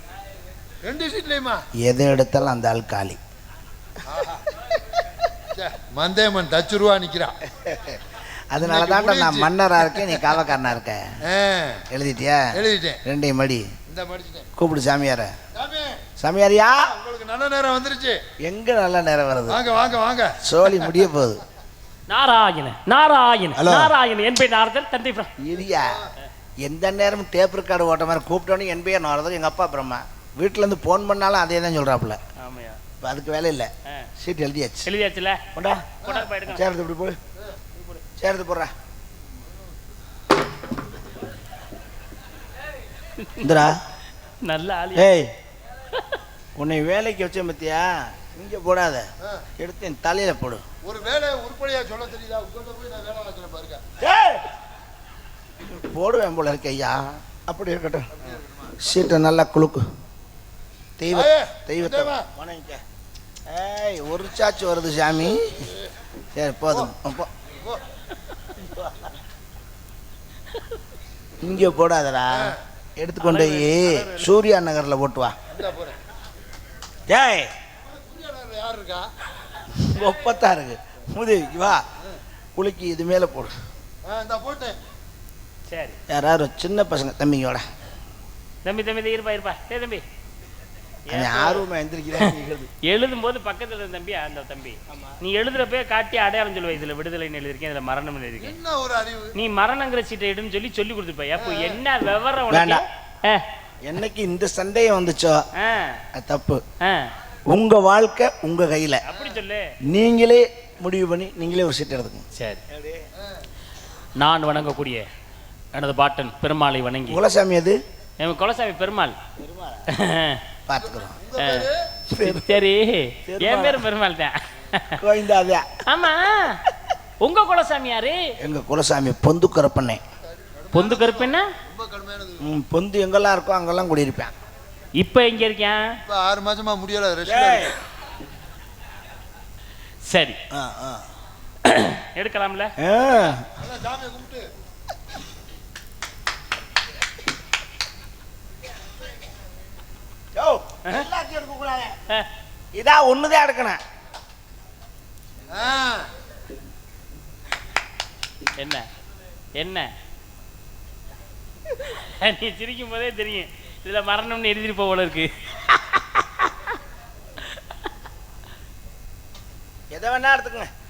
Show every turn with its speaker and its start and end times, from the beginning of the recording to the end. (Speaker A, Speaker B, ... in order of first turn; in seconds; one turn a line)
Speaker A: 0.8-1.6
Speaker B: 1.8-3.2
Speaker A: 4.0-4.5
Speaker A: 5.5-7.3
Speaker B: 7.5-11.1
Speaker A: 8.6-10.2
Speaker A: 11.2-11.8
Speaker B: 11.9-13.7
Speaker A: 12.5-13.0
Speaker A: 13.9-14.5
Speaker B: 14.6-15.4
Speaker A: 15.5-16.0
Speaker B: 16.2-16.9
Speaker A: 16.9-18.2
Speaker B: 18.4-19.6
Speaker A: 19.5-20.9
Speaker B: 20.4-21.4
Speaker C: 22.1-25.3
Speaker B: 23.6-23.9
Speaker B: 25.4-26.0
Speaker A: 25.7-26.1
Speaker B: 26.6-32.2
Speaker C: 32.4-32.8
Speaker B: 33.0-34.9
Speaker C: 34.8-35.4
Speaker B: 35.5-37.2
Speaker C: 36.0-36.6
Speaker C: 37.8-38.0
Speaker B: 38.2-38.7
Speaker C: 43.2-43.4
Speaker B: 43.4-43.8
Speaker C: 44.4-45.1
Speaker B: 44.9-45.3
Speaker B: 46.6-49.1
Speaker B: 49.6-50.6
Speaker A: 50.8-53.8
Speaker B: 54.0-54.5
Speaker B: 55.6-58.1
Speaker A: 58.2-58.8
Speaker B: 58.8-59.9
Speaker B: 61.0-62.8
Speaker A: 61.1-62.2
Speaker B: 63.5-65.7
Speaker A: 65.5-65.9
Speaker B: 66.3-67.3
Speaker A: 67.5-67.8
Speaker B: 68.5-69.2
Speaker B: 71.4-75.3
Speaker A: 72.3-72.6
Speaker C: 73.3-74.0
Speaker A: 73.4-74.1
Speaker A: 75.5-76.0
Speaker B: 77.1-77.5
Speaker A: 77.8-79.1
Speaker B: 79.7-81.8
Speaker B: 82.5-83.5
Speaker A: 84.0-84.8
Speaker C: 85.7-86.0
Speaker B: 86.1-87.6
Speaker C: 88.6-90.0
Speaker C: 91.1-91.6
Speaker B: 91.1-92.7
Speaker C: 92.8-98.5
Speaker A: 98.4-99.3
Speaker C: 99.3-103.4
Speaker A: 101.4-101.8
Speaker B: 102.5-102.8
Speaker B: 103.8-105.5
Speaker C: 105.6-106.0
Speaker B: 106.1-106.6
Speaker C: 106.8-107.1
Speaker B: 107.5-109.0
Speaker C: 109.0-109.7
Speaker B: 109.9-113.1
Speaker C: 112.3-112.6
Speaker C: 114.2-115.0
Speaker C: 115.7-117.2
Speaker B: 117.1-117.8
Speaker C: 118.2-119.2
Speaker B: 119.4-119.9
Speaker C: 119.9-120.4
Speaker B: 120.7-121.2
Speaker A: 120.8-121.9
Speaker C: 121.4-121.7
Speaker B: 122.1-122.5
Speaker C: 122.2-125.0
Speaker B: 123.2-123.8
Speaker B: 125.0-125.7
Speaker C: 125.9-126.6
Speaker C: 127.2-128.3
Speaker B: 128.4-130.0
Speaker A: 130.3-132.5
Speaker C: 130.7-131.5
Speaker B: 132.4-134.3
Speaker C: 135.0-135.8
Speaker A: 136.1-137.8
Speaker B: 137.2-137.7
Speaker C: 140.1-140.4
Speaker B: 140.5-141.0
Speaker C: 141.6-142.7
Speaker B: 142.8-143.4
Speaker A: 143.4-144.4
Speaker B: 150.3-152.0
Speaker B: 152.7-153.8
Speaker A: 155.5-156.1
Speaker C: 158.6-158.8
Speaker C: 159.6-159.9
Speaker C: 161.8-166.5
Speaker B: 169.9-170.7